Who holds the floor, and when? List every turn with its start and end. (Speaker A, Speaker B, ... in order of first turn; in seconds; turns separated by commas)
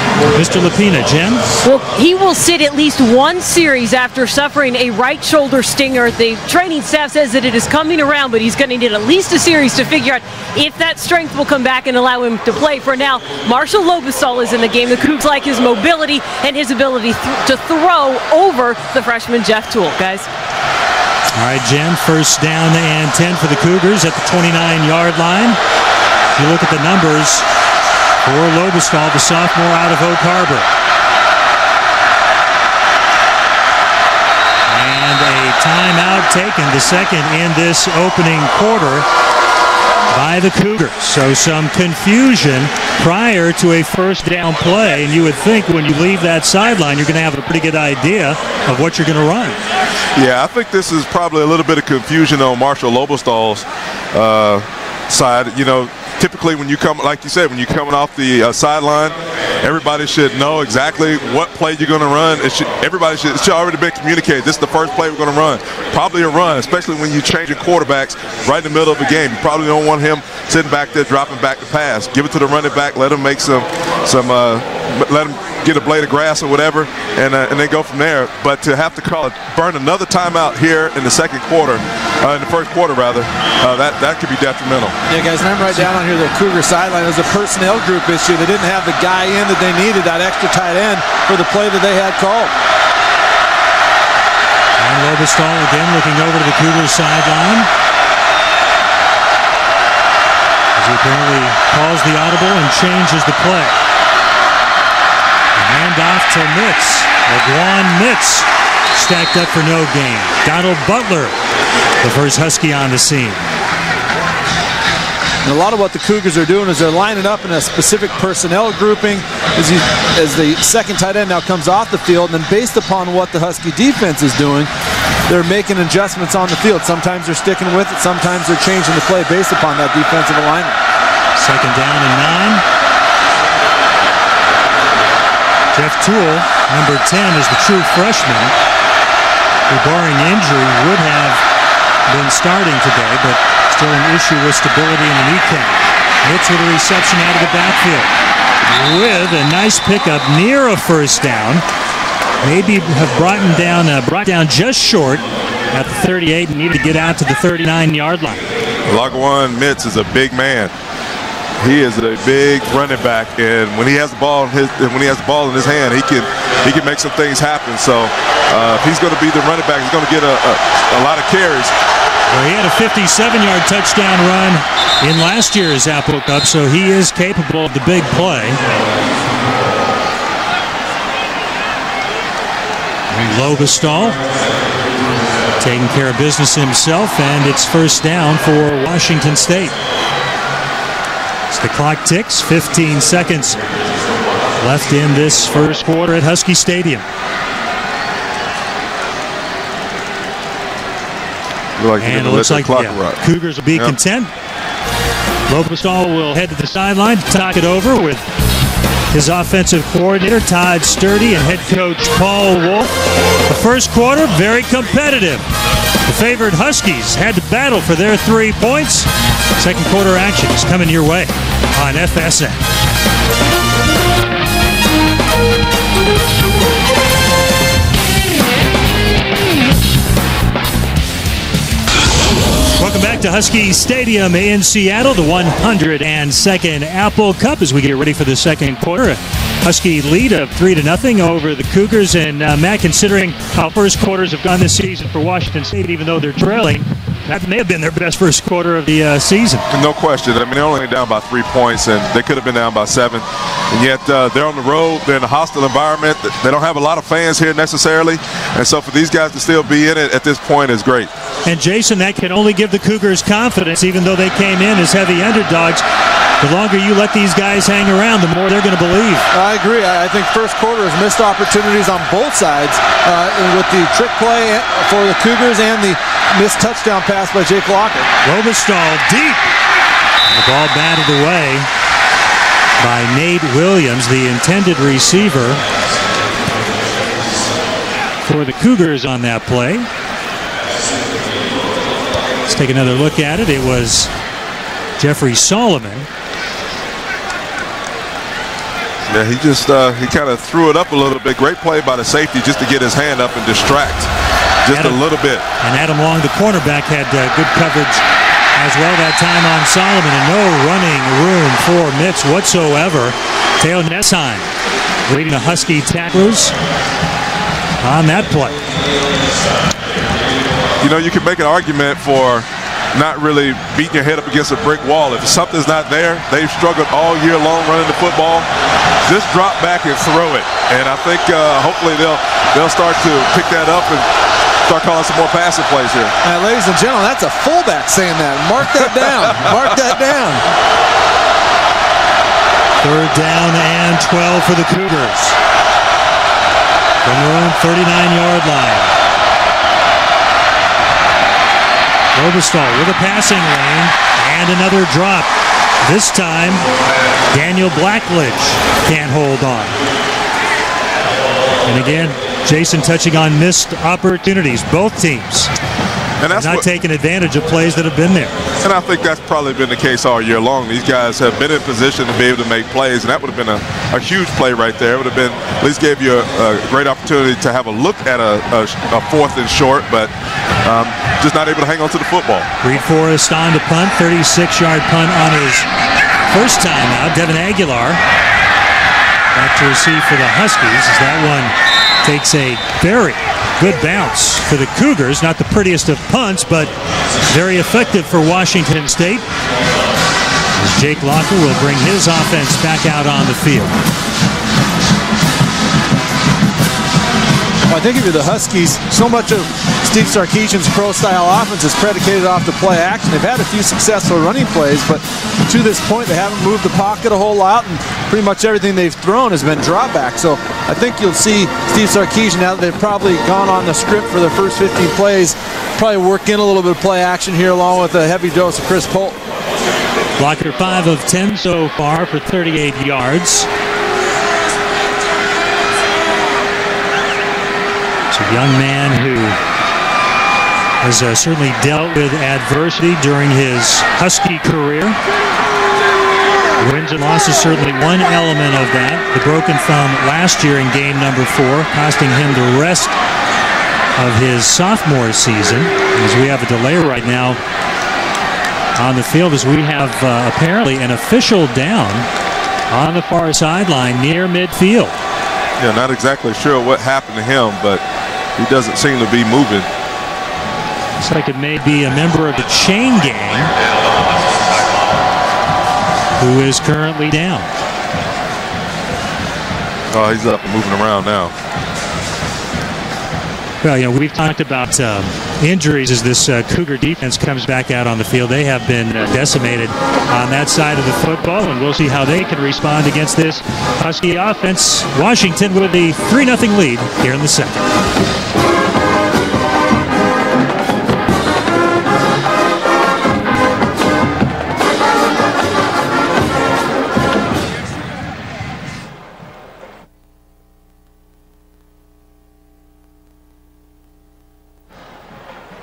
Speaker A: 0.3-1.6, Speaker B: 1.6-20.3, Speaker A: 21.4-25.6, Speaker A: 26.4-27.5, Speaker A: 28.2-30.7, Speaker A: 34.7-39.1, Speaker A: 40.1-49.6, Speaker C: 50.2-85.0, Speaker D: 85.1-92.5, Speaker A: 94.8-97.7, Speaker A: 100.8-103.8, Speaker A: 105.6-111.3, Speaker A: 112.0-113.4, Speaker D: 115.4-124.7, Speaker D: 125.3-130.8, Speaker A: 131.4-132.6, Speaker A: 135.8-138.5, Speaker A: 139.7-141.4, Speaker A: 142.1-148.1, Speaker A: 148.7-151.7, Speaker A: 152.4-158.4, Speaker C: 158.9-160.7, Speaker C: 161.6-171.7, Speaker A: 172.3-178.6, Speaker A: 183.1-184.2, Speaker A: 185.6-189.8, Speaker A: 191.5-193.6, Speaker A: 194.6-197.1, Speaker C: 201.8-203.2, Speaker A: 202.0-204.3, Speaker A: 205.5-208.3, Speaker A: 209.1-212.9, Speaker A: 213.5-215.4, Speaker A: 216.1-222.6, Speaker A: 232.8-249.7, Speaker C: 249.7-261.1, Speaker A: 261.5-265.8, Speaker A: 266.4-269.3, Speaker D: 269.3-278.1, Speaker A: 278.2-279.5, Speaker A: 280.3-281.7, Speaker A: 282.8-285.6, Speaker A: 288.2-289.9, Speaker A: 292.5-294.1, Speaker A: 295.0-296.1, Speaker C: 299.1-304.1, Speaker C: 304.6-305.4, Speaker A: 304.7-305.0, Speaker A: 305.6-308.0, Speaker A: 308.6-314.5, Speaker A: 315.1-316.5, Speaker A: 317.8-318.6, Speaker C: 320.8-328.5, Speaker C: 329.1-334.1, Speaker C: 334.7-336.1, Speaker D: 336.2-340.4, Speaker A: 342.8-345.4, Speaker A: 347.1-348.9, Speaker A: 352.1-355.3, Speaker A: 355.8-356.6, Speaker A: 357.3-359.8, Speaker A: 361.7-365.5, Speaker C: 366.2-366.6, Speaker A: 366.3-368.4, Speaker C: 368.6-380.1, Speaker C: 380.6-382.5, Speaker A: 382.6-385.7, Speaker A: 386.3-388.0, Speaker A: 389.3-396.7, Speaker A: 397.3-399.3, Speaker A: 400.6-403.8, Speaker D: 407.7-429.2, Speaker A: 430.2-433.5, Speaker A: 438.1-439.4, Speaker A: 440.8-445.0, Speaker A: 446.6-452.9, Speaker A: 454.0-457.4, Speaker A: 458.8-462.1, Speaker A: 462.7-464.9, Speaker C: 465.6-467.8, Speaker C: 468.4-469.7, Speaker A: 471.0-473.5, Speaker A: 476.2-477.5, Speaker C: 479.9-481.3, Speaker A: 483.6-497.6